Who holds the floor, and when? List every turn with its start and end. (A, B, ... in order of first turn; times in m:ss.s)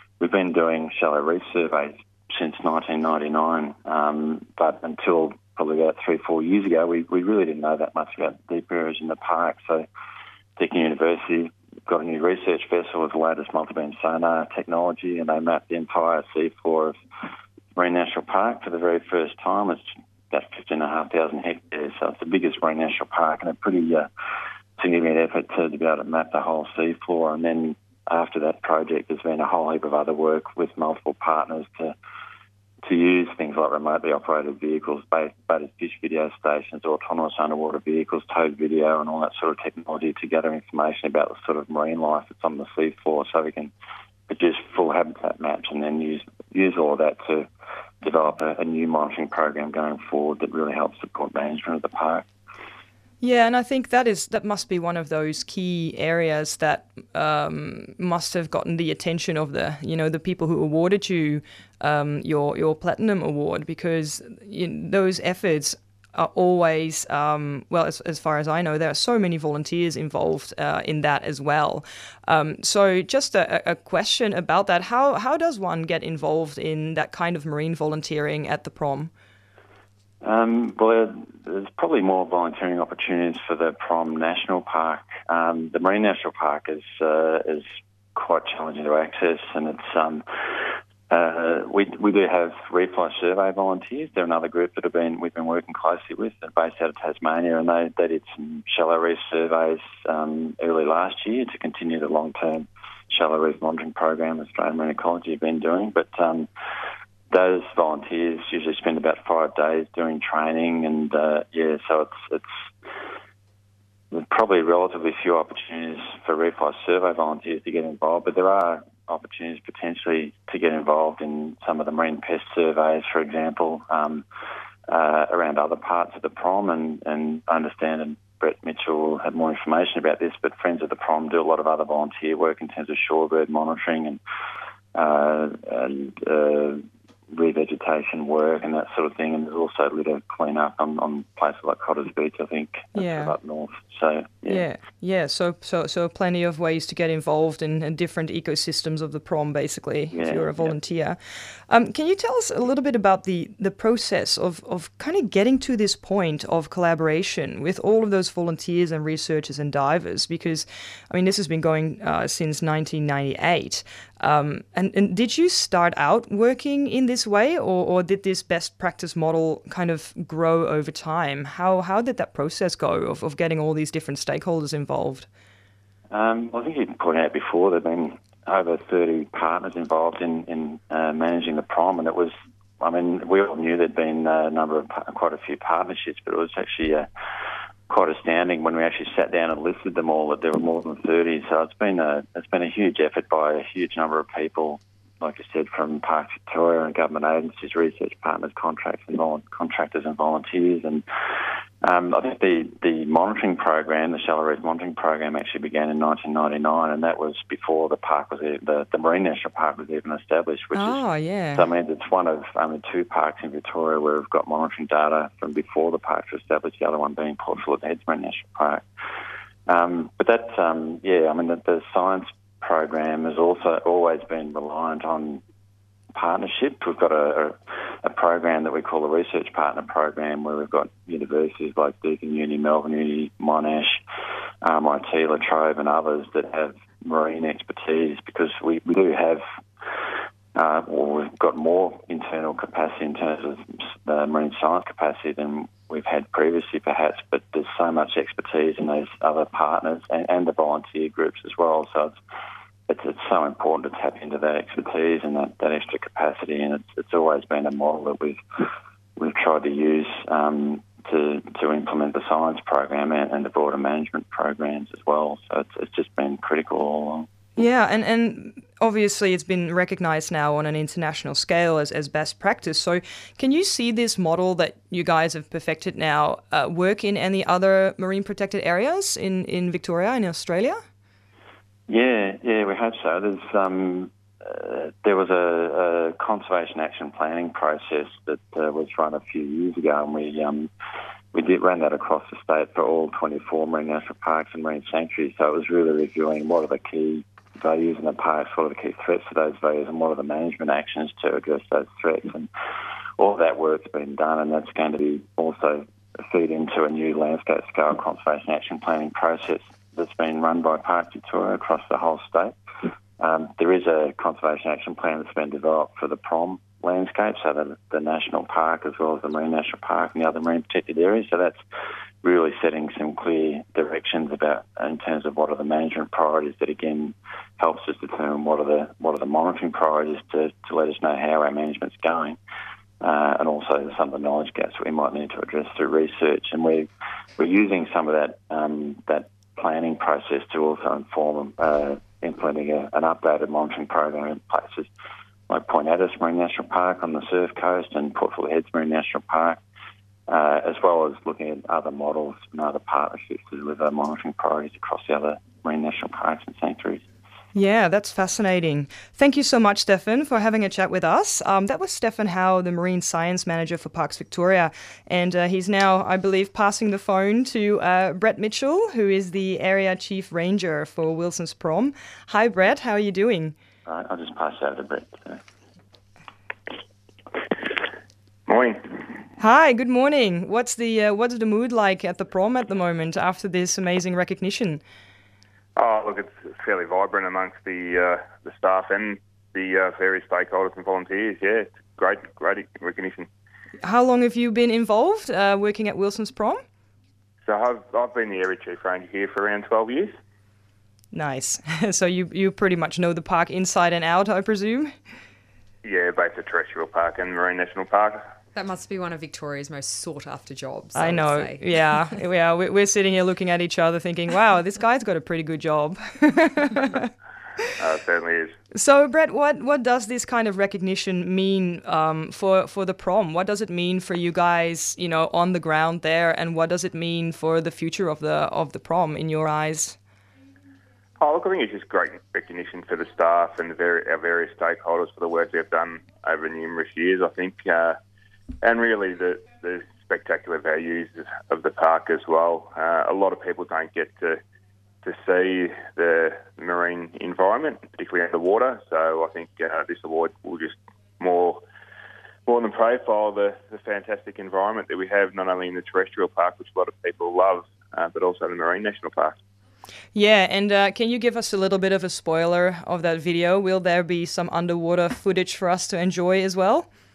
0:00.2-0:09.9 A
0:10.6-0:17.0 A
0:17.8-0:24.1 A
0:24.8-0:32.0 A
0:32.8-0:43.7 A
0:44.3-0:47.5 A
0:48.0-0:52.3 A
0:53.2-1:19.1 B
1:20.2-1:46.5 A
1:47.3-1:52.7 A
1:54.1-2:04.2 A
2:04.9-2:14.2 A
2:15.0-2:24.7 A
2:23.0-2:23.4 B
2:24.5-2:31.2 B
2:30.1-2:30.8 A
2:31.7-2:55.3 B
2:56.1-3:07.1 A
3:07.9-3:31.0 A
3:30.7-3:31.7 B
3:31.5-3:38.9 A
3:39.7-3:45.4 A
3:46.2-3:54.0 A
3:54.6-4:12.2 A
4:12.9-4:18.4 A
4:19.2-4:27.3 A
4:27.6-4:40.8 B
4:41.9-4:50.7 A
4:51.3-5:02.5 A
5:03.2-5:12.6 A
5:13.2-5:21.6 A
5:22.2-5:32.4 A
5:33.0-5:44.9 A
5:45.5-5:49.6 A
5:50.3-5:57.0 A
5:57.6-6:13.6 B
6:13.9-6:15.4 A
6:18.5-6:18.9 C
6:19.4-6:24.8 B
6:25.8-6:33.3 C
6:33.8-6:36.6 B
6:37.4-6:40.1 C
6:41.1-6:44.9 B
6:45.8-6:48.2 C
6:48.5-6:51.6 D
6:51.0-6:57.1 B
6:57.8-6:58.6 C
6:58.7-7:10.0 B
7:11.2-7:18.0 C
7:18.6-7:24.4 C
7:25.0-7:31.6 C
7:32.5-7:39.4 C
7:40.2-7:46.9 B